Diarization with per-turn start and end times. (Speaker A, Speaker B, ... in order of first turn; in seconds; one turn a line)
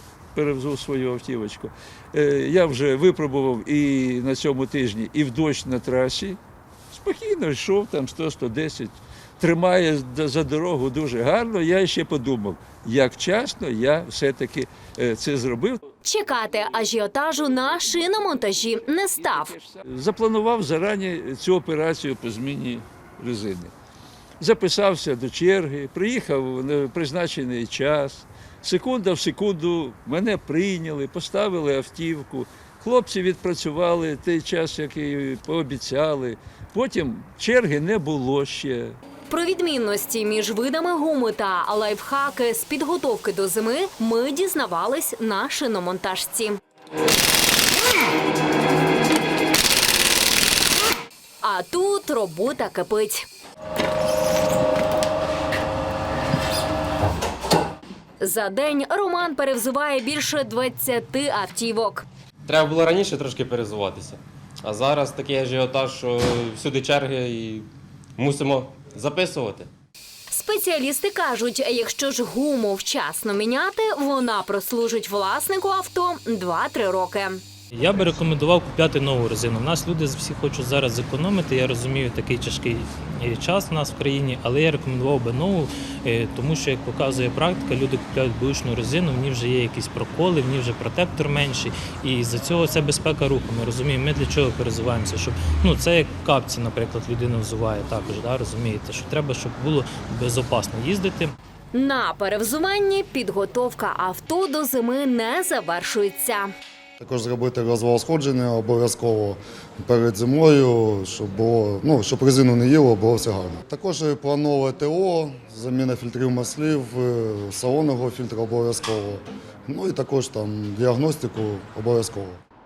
Speaker A: 0.3-6.4
Speaker A: 6.9-15.8
Speaker B: 16.0-19.5
Speaker A: 19.2-23.7
Speaker A: 24.4-39.0
Speaker B: 39.3-46.6
Speaker B: 51.4-53.2
Speaker B: 58.2-62.0
Speaker C: 62.5-69.7
Speaker B: 70.3-77.4
Speaker D: 77.7-101.3
Speaker B: 101.7-106.5
Speaker E: 107.0-122.4